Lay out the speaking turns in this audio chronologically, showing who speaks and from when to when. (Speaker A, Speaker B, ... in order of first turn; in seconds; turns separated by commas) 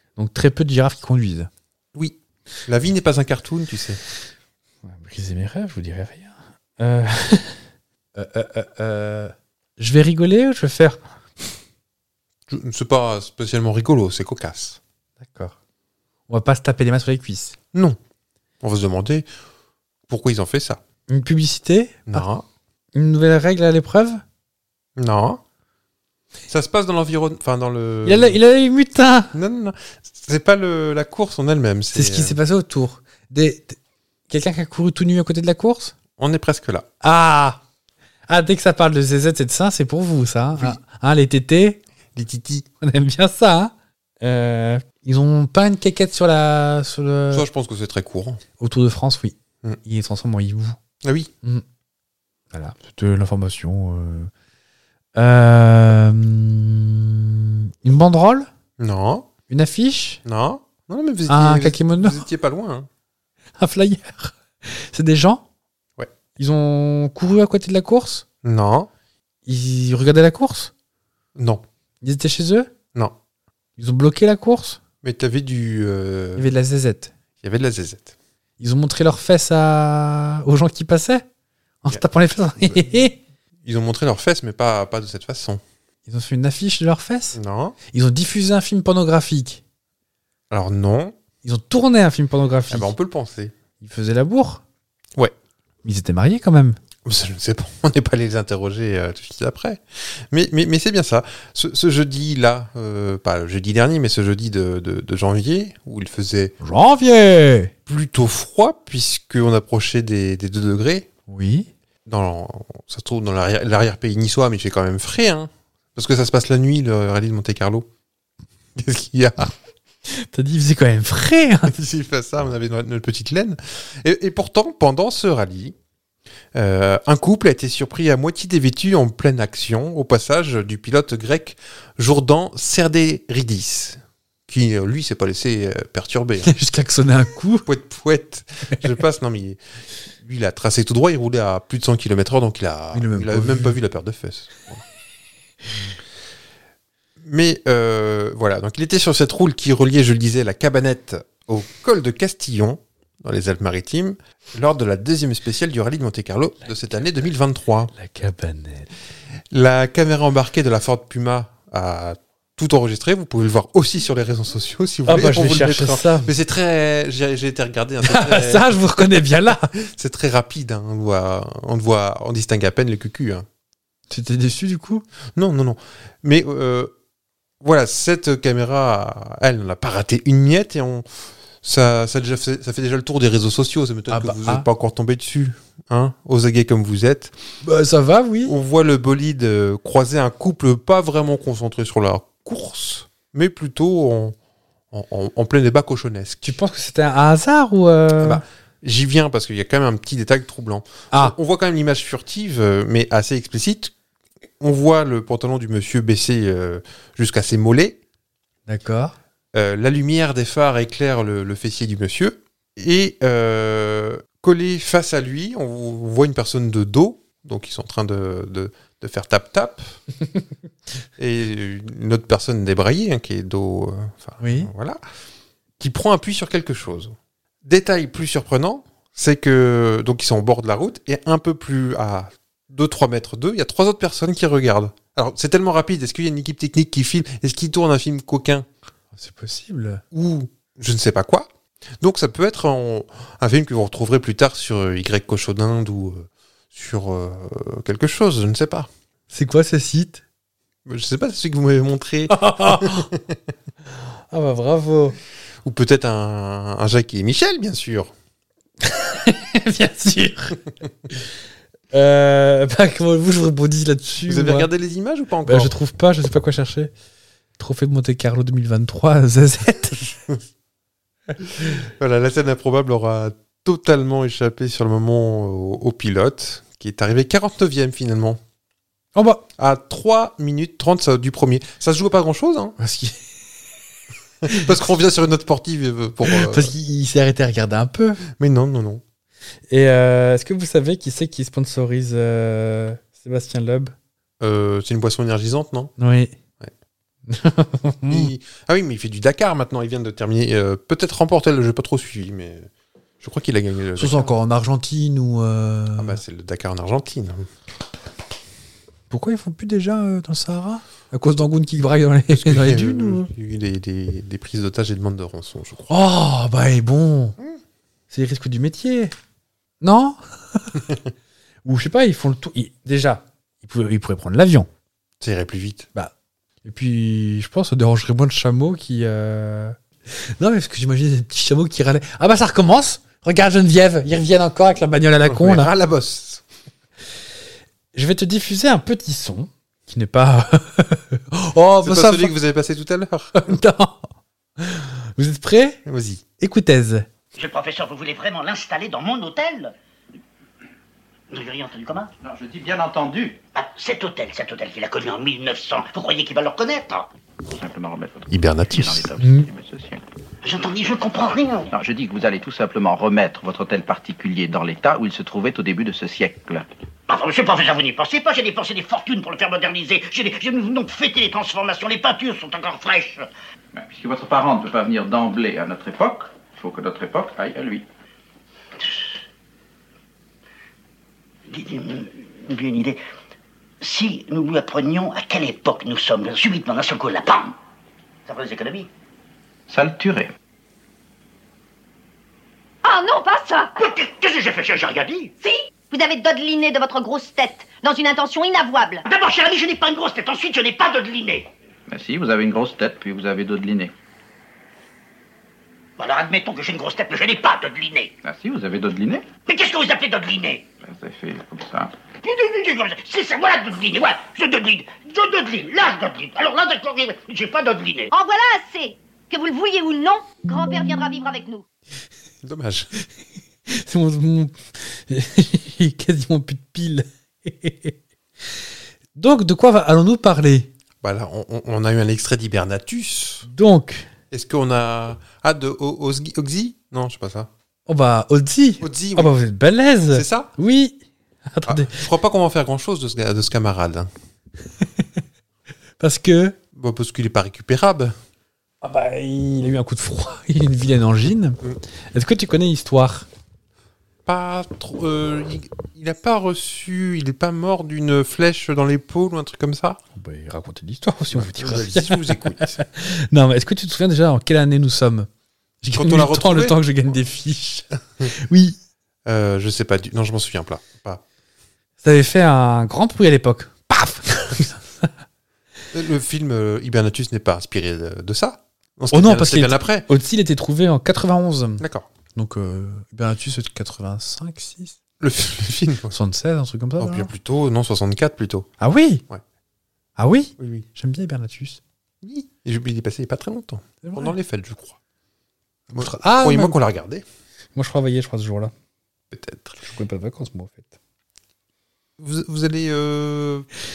Speaker A: 0.2-1.5, Speaker B: 1.9-4.0, Speaker A: 4.8-7.6, Speaker A: 8.2-11.0, Speaker B: 12.5-14.8, Speaker A: 15.2-15.6, Speaker A: 16.3-17.6, Speaker B: 17.7-18.0, Speaker B: 18.6-19.3, Speaker B: 20.1-20.8, Speaker A: 21.1-22.3, Speaker B: 22.1-22.4, Speaker A: 22.9-24.2, Speaker B: 25.0-25.4, Speaker B: 26.5-28.4, Speaker A: 28.1-29.3, Speaker B: 29.3-32.4, Speaker A: 31.9-33.8, Speaker A: 34.3-36.0, Speaker B: 36.2-36.9, Speaker A: 37.0-37.6, Speaker A: 38.3-41.8, Speaker B: 42.1-42.7, Speaker A: 42.8-47.5, Speaker B: 47.3-48.4, Speaker A: 48.6-50.8, Speaker B: 51.0-51.3, Speaker A: 52.5-54.3, Speaker A: 55.2-58.5, Speaker B: 58.8-59.3, Speaker A: 59.5-60.2, Speaker B: 60.2-62.9, Speaker A: 61.3-62.3, Speaker A: 63.6-65.4, Speaker A: 66.4-68.2, Speaker B: 68.4-68.9, Speaker A: 69.5-70.7, Speaker B: 71.4-71.6, Speaker A: 72.0-72.7, Speaker A: 73.8-74.8, Speaker B: 75.0-76.5, Speaker A: 76.4-77.1, Speaker B: 77.4-78.1, Speaker A: 78.6-81.2, Speaker A: 81.8-83.2, Speaker B: 83.6-85.6, Speaker A: 86.1-87.4, Speaker B: 87.3-87.8, Speaker A: 87.9-89.6, Speaker B: 90.5-91.2, Speaker A: 91.4-92.9, Speaker B: 92.7-93.5, Speaker A: 93.8-94.6, Speaker A: 95.8-96.8, Speaker B: 97.0-106.5, Speaker A: 106.6-107.7, Speaker B: 107.9-111.1, Speaker A: 111.3-111.7, Speaker B: 112.1-117.9, Speaker B: 118.8-119.5, Speaker A: 120.1-121.7, Speaker B: 121.7-125.8, Speaker B: 126.5-136.6, Speaker A: 136.4-137.7, Speaker B: 137.7-139.6, Speaker B: 140.2-144.8, Speaker A: 142.9-143.8, Speaker B: 147.2-157.9, Speaker A: 157.9-158.9, Speaker B: 159.5-173.5, Speaker A: 165.1-166.3, Speaker A: 168.0-169.7, Speaker A: 174.1-175.1, Speaker B: 175.4-176.9, Speaker B: 177.6-181.1, Speaker B: 181.6-187.3, Speaker A: 184.1-184.7, Speaker A: 187.6-188.6, Speaker B: 188.4-194.4, Speaker B: 194.9-196.5, Speaker A: 196.4-198.4, Speaker B: 198.2-203.9, Speaker B: 204.6-208.0, Speaker A: 208.7-209.2, Speaker B: 209.5-220.0, Speaker B: 221.2-225.0, Speaker A: 224.4-224.7, Speaker B: 225.8-238.7, Speaker A: 239.2-240.0, Speaker B: 240.1-241.5, Speaker B: 242.0-248.9, Speaker A: 249.3-250.2, Speaker B: 250.9-253.4, Speaker A: 252.3-253.1, Speaker A: 254.3-255.2, Speaker B: 255.6-258.1, Speaker A: 258.8-261.3, Speaker A: 261.9-264.7, Speaker B: 264.3-265.7, Speaker A: 265.4-266.9, Speaker A: 267.6-270.2, Speaker B: 271.4-278.4, Speaker A: 279.1-279.5, Speaker B: 279.6-282.8, Speaker A: 282.8-283.3, Speaker B: 284.4-286.7, Speaker A: 286.2-288.2, Speaker B: 288.3-289.0, Speaker A: 289.7-293.9, Speaker B: 294.4-295.9, Speaker A: 296.0-296.4, Speaker A: 297.3-298.3, Speaker B: 298.1-302.7, Speaker B: 303.2-304.3, Speaker A: 304.0-306.2, Speaker B: 306.0-307.5, Speaker A: 309.1-313.3, Speaker B: 312.3-315.9, Speaker A: 315.9-317.4, Speaker A: 318.1-319.1, Speaker A: 319.8-320.9, Speaker A: 321.6-324.7, Speaker B: 325.2-325.9, Speaker A: 326.6-335.7, Speaker B: 335.3-336.4, Speaker A: 337.9-342.4, Speaker B: 341.8-343.6, Speaker A: 343.4-345.8, Speaker B: 345.9-346.2, Speaker A: 346.4-347.1, Speaker C: 347.4-349.7, Speaker C: 351.3-352.1, Speaker D: 352.2-353.4, Speaker C: 353.6-357.1, Speaker D: 357.5-360.0, Speaker B: 358.3-359.1, Speaker A: 359.2-359.5, Speaker C: 360.4-361.7, Speaker D: 361.7-366.7, Speaker C: 367.1-373.3, Speaker D: 373.7-377.9, Speaker C: 381.5-383.0, Speaker C: 383.8-387.6, Speaker C: 388.3-388.9, Speaker D: 389.7-390.3, Speaker E: 392.8-393.8, Speaker C: 393.8-395.3, Speaker E: 395.4-399.1, Speaker C: 399.1-401.5, Speaker D: 401.9-403.9, Speaker C: 406.0-408.1, Speaker D: 408.2-409.3, Speaker C: 409.5-410.6, Speaker D: 410.8-411.9, Speaker C: 412.2-418.1, Speaker E: 418.1-421.6, Speaker B: 422.4-422.9, Speaker A: 423.7-428.0, Speaker A: 429.2-430.7, Speaker B: 431.0-433.5, Speaker A: 433.5-434.1, Speaker B: 434.3-437.5, Speaker A: 437.9-442.1, Speaker B: 438.8-439.3, Speaker B: 440.1-440.5, Speaker B: 441.7-444.1, Speaker A: 446.0-446.6, Speaker B: 446.7-448.1, Speaker A: 448.8-451.6, Speaker A: 452.1-453.3, Speaker B: 454.3-460.0, Speaker A: 460.2-465.3, Speaker B: 461.3-462.8, Speaker A: 465.8-468.8, Speaker B: 465.9-466.8, Speaker B: 469.3-471.2, Speaker A: 472.0-475.1, Speaker B: 475.9-480.1, Speaker A: 479.1-485.0, Speaker B: 481.8-482.1, Speaker B: 485.2-486.1, Speaker A: 486.1-487.3, Speaker B: 487.0-488.7, Speaker A: 488.8-489.2, Speaker A: 490.2-491.8, Speaker B: 490.6-490.9, Speaker B: 492.2-495.0, Speaker A: 494.0-494.3, Speaker B: 495.9-497.2, Speaker A: 495.9-496.8, Speaker A: 497.8-498.7, Speaker B: 499.3-499.8, Speaker A: 499.8-500.9, Speaker B: 502.2-503.7